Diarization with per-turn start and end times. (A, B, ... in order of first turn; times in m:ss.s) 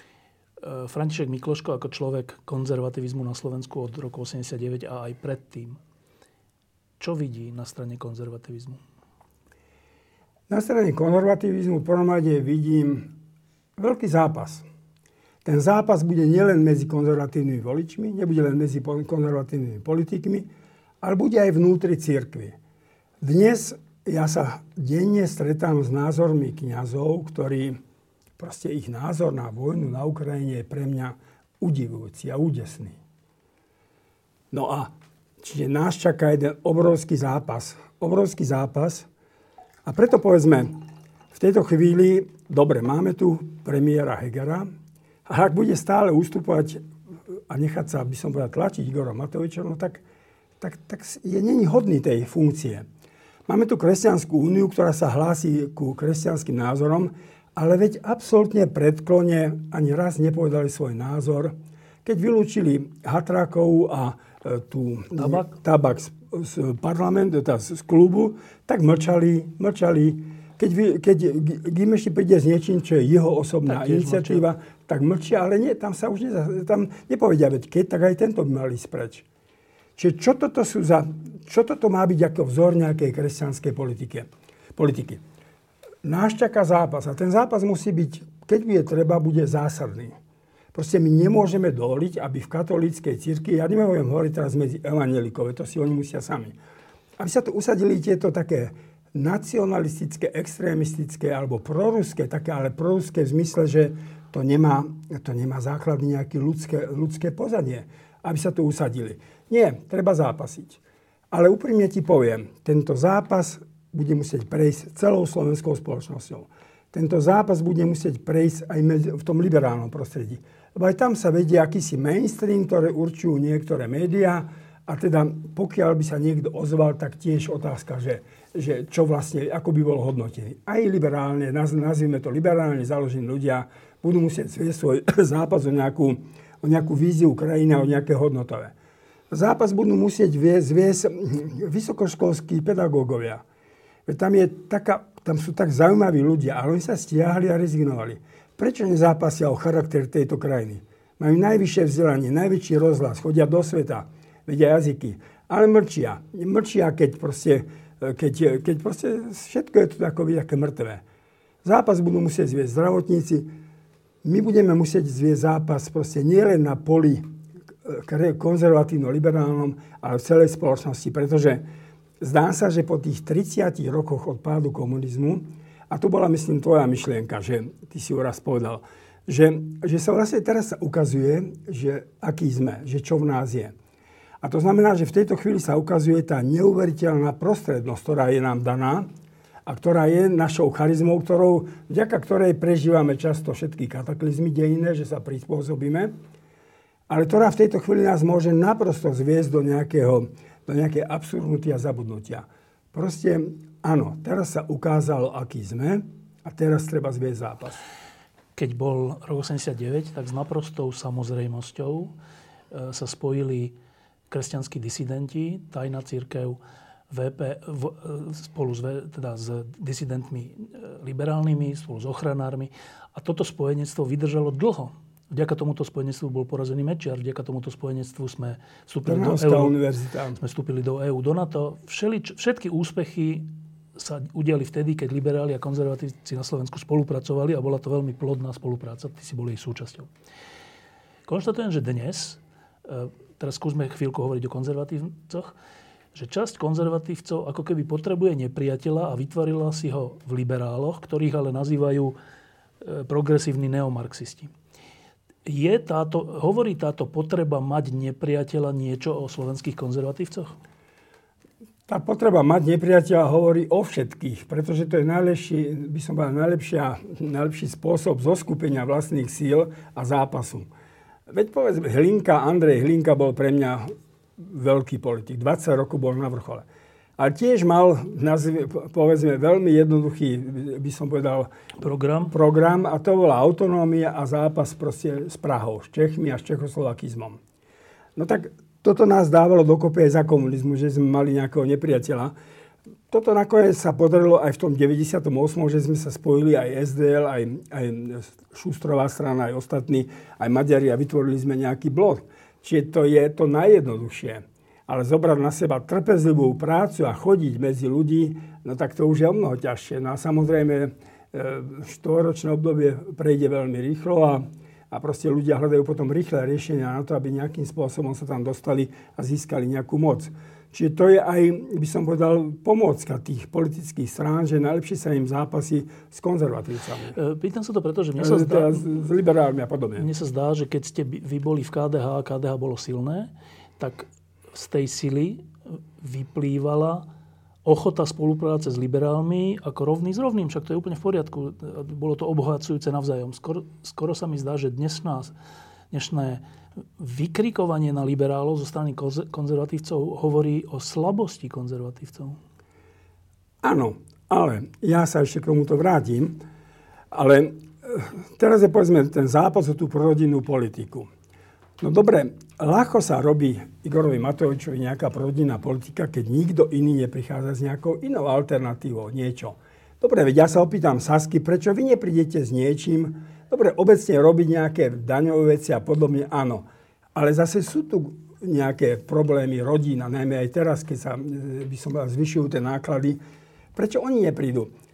0:00.6-0:05.8 A
0:07.0-0:08.8 A
0:10.5-0:13.1 B
0:13.8-0:14.6 B
0:15.4-0:20.5 B
0:21.0-0:22.5 B
0:23.2-0:27.8 B
0:28.4-0:33.0 B
0:34.5-0:39.1 B
0:39.8-0:40.8 B
0:41.3-0:44.7 B
0:45.2-0:46.8 B
0:47.5-0:50.0 B
0:50.6-0:52.8 B
0:53.5-1:01.5 B
1:02.0-1:19.2 B
1:05.2-1:05.5 A
1:13.6-1:14.5 A
1:20.0-1:25.2 B
1:26.0-1:30.1 B
1:30.7-1:36.6 B
1:37.2-1:50.8 B
1:51.3-2:18.7 B
2:19.3-2:23.4 B
2:24.0-2:41.0 B
2:41.6-2:43.5 B
2:44.2-2:47.3 B
2:47.8-2:51.6 B
2:52.2-3:03.7 B
3:04.4-3:09.1 B
3:09.6-3:16.1 B
3:17.1-3:27.8 B
3:28.6-3:32.1 A
3:32.7-3:33.7 A
3:34.3-3:36.6 A
3:37.1-3:49.8 A
3:49.0-3:50.4 B
3:50.4-4:00.1 A
4:01.3-4:05.5 A
4:06.1-4:12.2 A
4:12.8-4:14.5 A
4:15.4-4:20.5 A
4:21.9-4:30.7 B
4:31.3-4:36.6 B
4:37.2-4:41.5 B
4:41.8-4:42.3 A
4:42.3-4:47.4 B
4:48.2-4:52.3 B
4:53.1-5:27.2 B
5:27.1-5:28.9 A
5:28.2-5:30.1 B
5:30.0-5:37.0 A
5:37.6-5:45.3 A
5:45.9-5:46.4 A
5:47.0-5:52.4 A
5:53.6-5:56.4 B
5:57.1-6:01.1 B
6:01.8-6:23.2 B
6:23.7-6:24.7 B